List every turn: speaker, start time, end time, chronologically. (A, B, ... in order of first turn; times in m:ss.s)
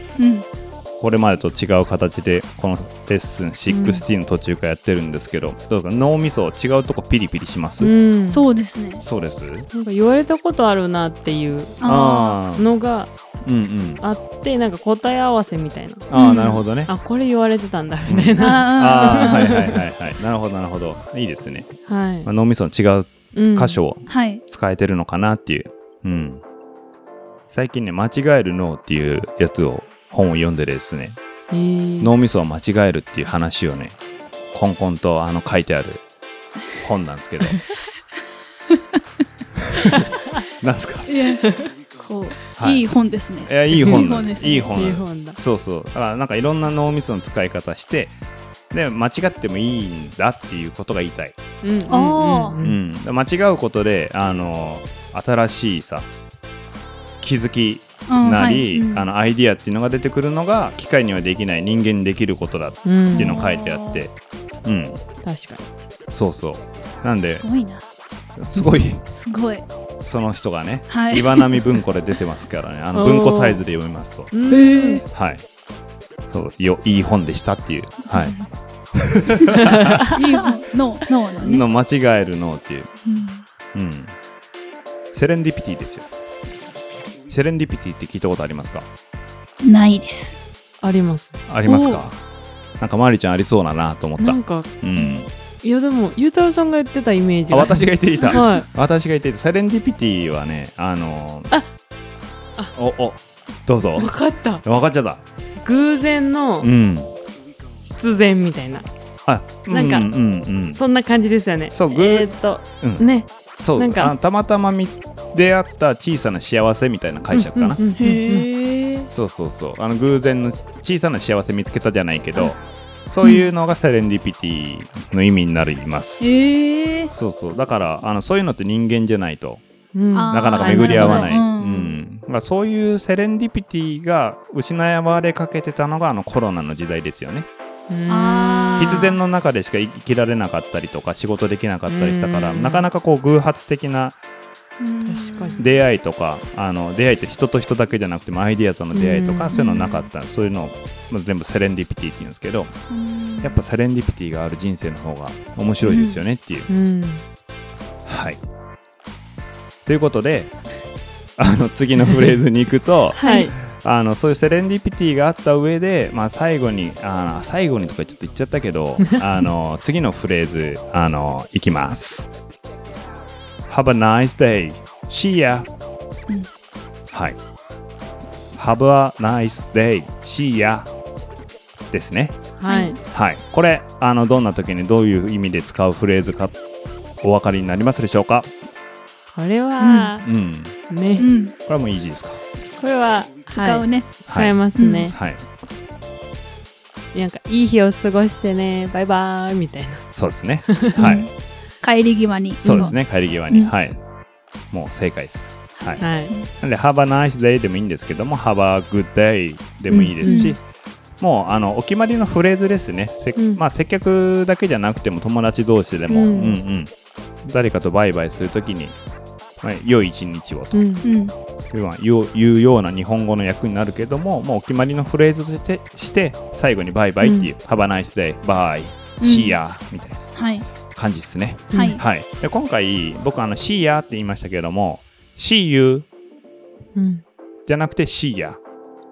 0:00.2-0:00.4 A
0:01.0-0:07.9 B
0:03.7-0:04.0 C
0:07.8-0:08.4 C
0:08.3-0:09.0 A
0:09.0-0:09.7 B
0:09.7-0:11.8 C
0:11.8-0:12.4 A
0:11.8-0:12.6 B
0:12.6-0:13.1 C
0:13.4-0:14.0 B
0:14.0-0:16.1 C
0:16.1-0:16.9 B
0:16.1-0:16.6 A
0:16.9-0:19.8 C
0:18.1-0:21.7 B
0:18.4-0:19.5 A
0:21.9-0:22.3 C
0:22.2-0:26.4 B
0:23.3-0:23.8 C
0:24.1-0:24.4 A
0:27.5-0:31.2 B
0:31.5-0:32.1 C
0:32.0-0:34.0 B
0:34.5-0:36.0 B
0:36.7-0:37.6 B
0:39.6-0:40.0 B
0:39.9-0:40.4 C
0:40.6-0:41.1 B
0:41.1-0:44.7 A
0:41.4-0:41.7 C
0:42.6-0:42.8 B
0:43.4-0:48.1 B
0:43.8-0:44.1 C
0:44.7-0:45.4 C
0:48.7-0:51.4 B
0:51.6-0:52.8 C
0:51.9-0:52.6 A
0:52.6-0:56.1 B
0:57.2-1:04.1 B
0:58.1-0:59.1 A
1:02.8-1:03.4 C
1:03.1-1:04.0 A
1:04.6-1:05.0 B
1:05.2-1:05.7 C
1:06.1-1:07.4 B
1:07.4-1:07.8 A
1:08.4-1:09.0 B
1:09.1-1:09.6 A
1:10.0-1:14.3 B
1:10.9-1:11.7 A
1:12.9-1:13.6 C
1:14.3-1:15.0 C
1:14.5-1:15.0 A
1:15.1-1:15.4 B
1:16.3-1:18.4 B
1:18.1-1:18.4 A
1:18.9-1:20.1 B
1:19.8-1:20.5 C
1:20.1-1:21.6 A
1:21.4-1:22.9 B
1:23.0-1:23.4 A
1:23.7-1:24.1 B
1:25.1-1:26.1 B
1:27.3-1:28.9 B
1:29.6-1:30.4 A
1:30.8-1:32.0 C
1:31.5-1:32.2 B
1:32.8-1:35.3 B
1:34.2-1:38.7 C
1:37.5-1:41.5 B
1:42.7-1:44.1 B
1:44.0-1:44.6 C
1:44.6-1:45.2 B
1:45.6-1:46.7 C
1:46.6-1:47.1 B
1:47.8-1:48.8 C
1:49.2-1:50.8 B
1:49.7-1:50.1 C
1:50.7-1:54.1 C
1:51.7-1:52.3 B
1:53.6-1:57.8 B
1:57.3-1:58.5 C
1:58.0-1:59.1 A
1:59.1-2:02.6 B
2:03.1-2:06.2 B
2:06.2-2:07.1 A
2:07.1-2:09.6 B
2:09.9-2:11.3 C
2:10.1-2:12.0 A
2:10.3-2:17.5 B
2:17.9-2:19.1 C
2:18.1-2:19.1 A
2:18.8-2:24.2 B
2:21.9-2:22.9 C
2:24.8-2:25.6 A
2:25.0-2:25.6 C
2:25.6-2:32.7 B
2:28.9-2:29.6 C
2:29.5-2:30.0 A
2:32.9-2:33.6 A
2:33.4-2:36.7 B
2:35.8-2:36.2 A
2:36.7-2:37.2 C
2:38.0-2:38.4 B
2:39.8-2:40.5 B
2:41.4-2:52.3 B
2:43.2-2:43.5 C
2:43.2-2:43.5 A
2:53.7-2:55.7 B
2:57.1-2:57.4 B
2:58.6-3:00.9 B
3:01.9-3:02.4 B
3:02.6-3:03.0 C
3:02.6-3:02.9 A
3:03.1-3:06.5 B
3:07.2-3:08.5 B
3:09.3-3:10.3 C
3:09.8-3:10.1 A
3:10.2-3:10.7 B
3:10.9-3:11.3 C
3:11.2-3:11.5 A
3:11.6-3:12.4 B
3:12.8-3:15.2 C
3:13.5-3:14.1 A
3:14.3-3:14.6 B
3:14.8-3:15.1 A
3:15.1-3:15.4 B
3:17.1-3:20.0 C
3:20.1-3:21.2 B
3:20.7-3:21.1 C
3:21.0-3:21.3 A
3:21.8-3:22.9 A
3:22.6-3:24.0 B
3:22.6-3:23.0 C
3:24.7-3:30.6 B
3:25.8-3:26.5 A
3:26.0-3:26.3 C
3:29.9-3:30.6 C
3:30.2-3:30.6 A
3:31.2-3:36.9 B
3:33.4-3:33.6 C
3:36.1-3:36.6 C
3:37.4-3:39.0 B
3:39.6-3:40.8 B
3:40.7-3:41.1 C
3:41.0-3:41.3 A
3:41.7-3:50.2 B
3:47.2-3:47.5 C
3:49.2-3:49.6 A
3:50.3-3:50.6 A
3:50.9-3:56.1 B
3:51.7-3:52.0 C
3:51.7-3:52.0 A
3:56.9-3:57.2 C
3:57.7-3:58.6 B